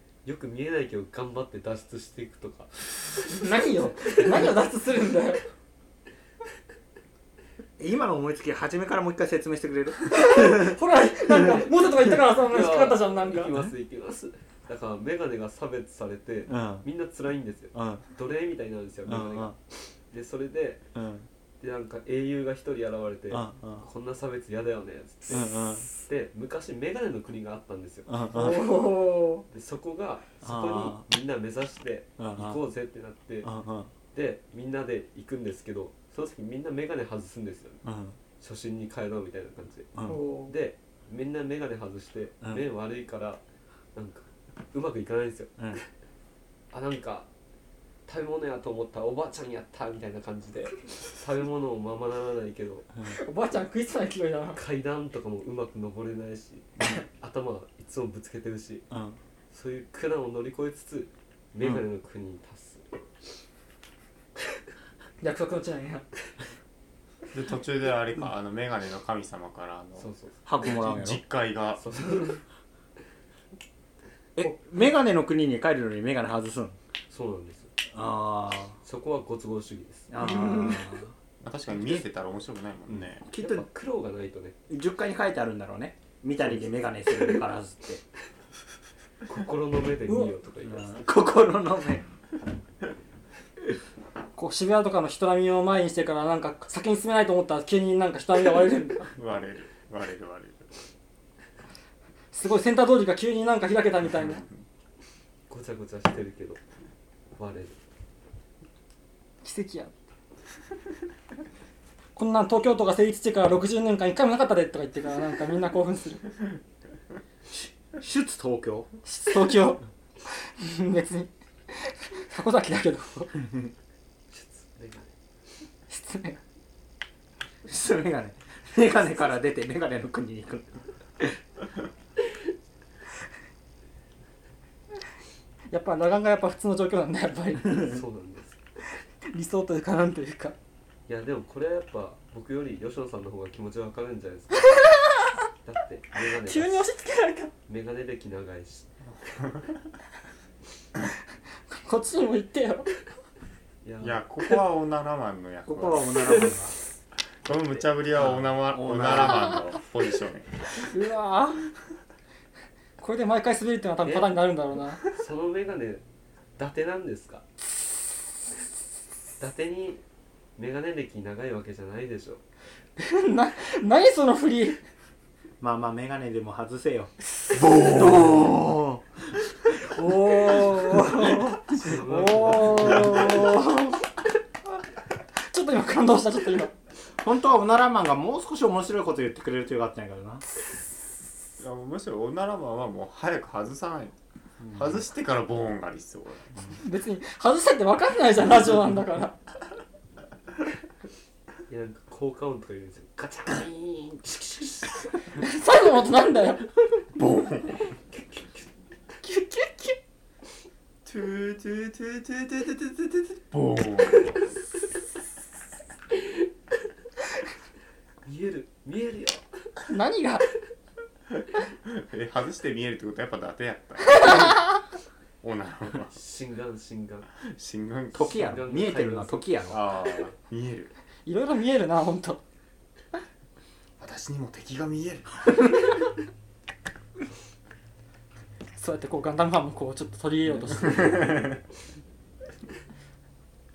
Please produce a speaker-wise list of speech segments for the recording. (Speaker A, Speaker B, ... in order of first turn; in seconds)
Speaker A: 0.2-2.9, 11.4-19.5, 20.1-20.8, 21.6-28.1, 29.5-33.5, 34.1-37.8, 38.4-43.4, 43.9-45.8, 46.7-47.3, 48.0-52.9, 54.5-58.8, 59.5-62.8, 70.0-70.5, 71.8-72.4, 77.1-77.7, 78.8-80.1, 83.3-84.5, 89.3-91.1, 105.5-106.6, 107.3-107.8, 124.3-125.1, 137.7-138.6, 141.1-144.8, 145.6-146.8, 147.7-148.9, 153.8-154.2, 156.3-156.5, 157.4-157.9, 164.0-164.4, 165.1-166.0, 166.6-167.4, 169.4-170.0, 170.6-172.4, 181.8-183.5, 201.7-205.1, 218.2-219.4, 226.1-227.3, 228.3-229.5
Speaker B: 3.2-5.4, 10.1-13.5, 28.3-29.4, 40.0-40.5, 53.0-54.6, 65.2-66.1, 80.2-81.0, 90.1-90.3, 94.3-99.1, 102.3-104.4, 109.4-109.9, 112.1-116.3, 119.0-119.8, 120.6-121.3, 121.8-123.5, 125.9-126.4, 135.7-137.8, 139.3-140.6, 146.4-147.5, 151.7-152.9, 160.9-161.6, 163.0-165.0, 173.0-174.8, 179.9-184.0, 185.5-186.7, 196.7-199.3, 205.4-206.6, 209.2-210.0, 219.8-220.4, 224.3-224.6, 231.2-232.4, 238.8-241.3
Speaker C: 7.8-10.8, 16.5-16.9, 17.7-18.0, 19.1-19.6, 20.9-21.3, 23.3-23.9, 25.3-25.9, 28.1-28.8, 30.4-31.0, 32.2-32.6, 33.4-33.9, 37.8-38.1, 58.9-59.2, 70.5-71.2, 74.3-76.8, 77.9-78.8, 80.1-81.1, 82.9-83.7, 84.7-88.0, 90.6-92.0, 117.5-118.9, 127.6-130.8, 155.6-156.8, 158.2-159.6, 175.6-177.1, 177.8-179.0, 187.2-190.4, 228.1-229.8
Speaker D: 67.3-71.8, 81.4-83.2, 99.2-100.7, 104.1-104.4, 149.2-149.8, 154.0-156.1, 157.4-160.5, 177.6-178.4, 181.3-182.0, 182.6-183.4, 191.6-196.5, 207.1-207.9, 211.0-214.5, 221.4-224.7, 225.4-226.1, 227.4-228.5, 229.7-230.9, 234.0-235.7, 241.0-241.4